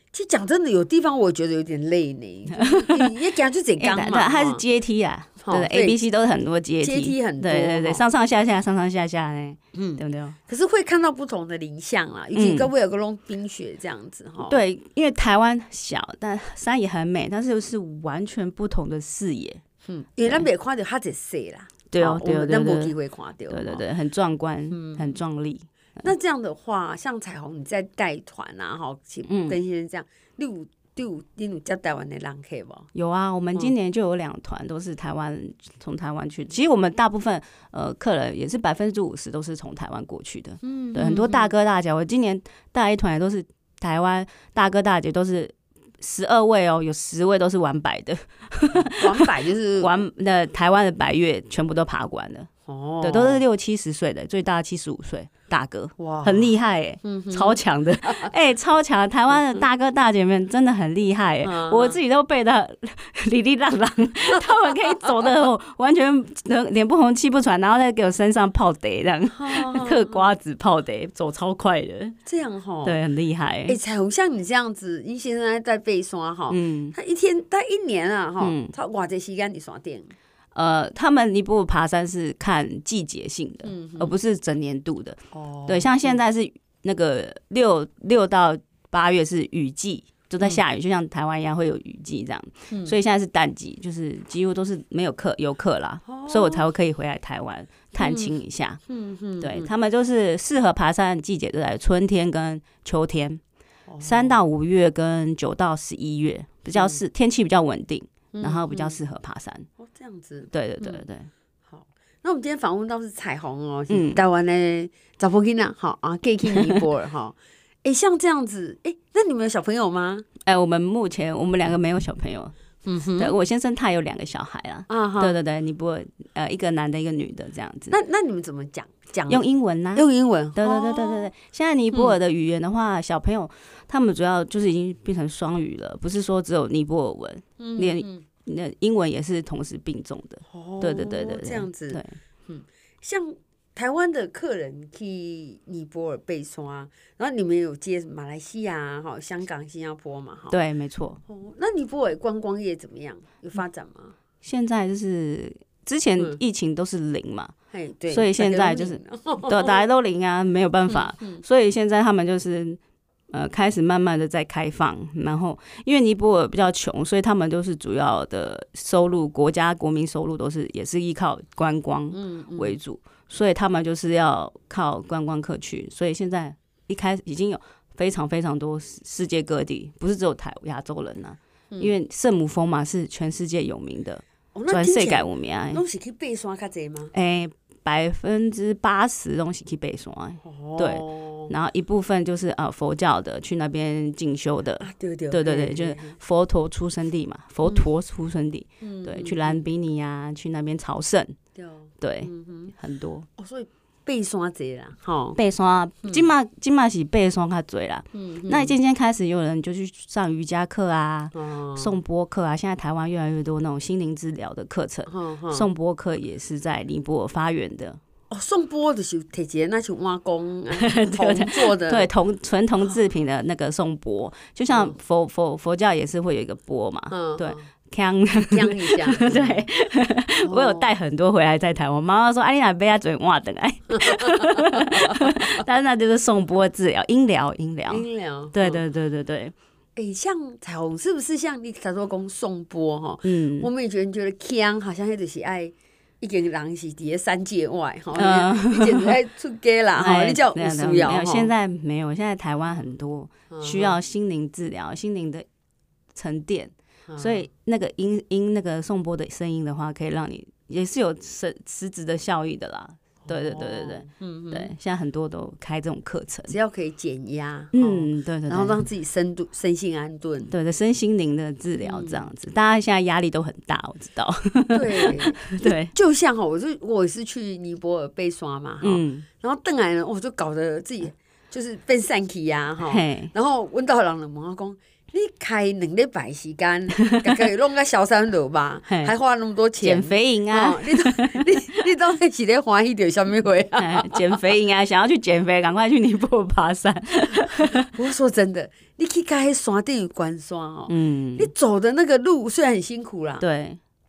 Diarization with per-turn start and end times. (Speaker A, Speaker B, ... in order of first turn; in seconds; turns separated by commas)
Speaker A: 0.1-4.6, Speaker B: 2.5-3.1, Speaker B: 3.8-10.4, Speaker A: 5.4-6.0, Speaker A: 6.8-8.0, Speaker A: 9.7-14.6, Speaker B: 12.3-12.7, Speaker B: 14.4-19.6, Speaker A: 19.9-23.8, Speaker B: 21.9-22.9, Speaker B: 23.5-26.1, Speaker A: 24.7-25.1, Speaker A: 26.0-32.9, Speaker B: 29.3-29.6, Speaker B: 32.9-52.5, Speaker A: 40.6-41.5, Speaker A: 48.8-50.0, Speaker A: 52.7-53.4, Speaker B: 53.0-72.2, Speaker A: 56.0-56.5, Speaker A: 57.0-58.3, Speaker A: 61.4-62.0, Speaker A: 69.3-70.3, Speaker A: 72.3-73.0, Speaker B: 72.8-73.8, Speaker A: 73.7-80.1, Speaker B: 76.5-77.0, Speaker B: 78.4-78.7, Speaker B: 80.5-98.8, Speaker A: 83.6-84.2, Speaker A: 85.3-86.2, Speaker A: 92.7-93.0, Speaker A: 96.1-96.6, Speaker A: 98.0-98.3, Speaker A: 98.9-99.7, Speaker B: 99.4-103.4, Speaker A: 103.9-104.4, Speaker B: 104.0-109.7, Speaker A: 106.7-107.0, Speaker A: 108.3-109.0, Speaker A: 109.8-111.0, Speaker B: 110.5-111.3, Speaker A: 111.7-120.3, Speaker B: 113.9-114.2, Speaker B: 120.5-122.5, Speaker A: 122.8-123.3, Speaker B: 123.2-128.0, Speaker A: 124.9-125.4, Speaker A: 127.9-131.3, Speaker B: 129.3-142.2, Speaker A: 137.6-138.2, Speaker A: 140.5-150.6, Speaker B: 150.5-151.2, Speaker A: 151.3-154.2, Speaker B: 154.4-157.5, Speaker A: 157.7-159.8, Speaker B: 158.1-162.8, Speaker A: 160.9-161.4, Speaker B: 163.3-185.8, Speaker A: 172.1-172.8, Speaker A: 184.6-187.1, Speaker B: 187.1-201.4, Speaker A: 190.4-191.5, Speaker A: 194.8-196.2, Speaker A: 198.8-199.6, Speaker A: 201.6-202.7, Speaker B: 202.0-203.3, Speaker A: 203.4-205.4, Speaker B: 205.4-218.0, Speaker A: 208.1-208.8, Speaker A: 211.3-211.9, Speaker A: 215.1-215.7, Speaker A: 218.3-222.1, Speaker B: 220.7-239.6, Speaker A: 224.7-224.9, Speaker A: 227.1-227.7, Speaker A: 228.4-229.6, Speaker A: 230.4-230.9, Speaker A: 234.0-235.6, Speaker A: 237.9-238.8, Speaker A: 240.0-251.5, Speaker B: 243.2-243.7, Speaker B: 248.2-249.2, Speaker B: 250.0-255.5, Speaker A: 253.5-254.0, Speaker B: 256.1-266.6, Speaker A: 257.1-257.4, Speaker A: 263.2-264.7, Speaker A: 266.5-270.5, Speaker B: 267.7-268.8, Speaker B: 270.5-275.9, Speaker A: 271.8-272.3, Speaker A: 274.7-294.3, Speaker B: 278.8-279.3, Speaker B: 282.9-283.3, Speaker B: 287.0-287.4, Speaker B: 288.9-289.1, Speaker B: 289.8-291.6, Speaker B: 293.8-297.9, Speaker A: 297.4-303.4, Speaker B: 300.9-301.5, Speaker B: 303.4-303.8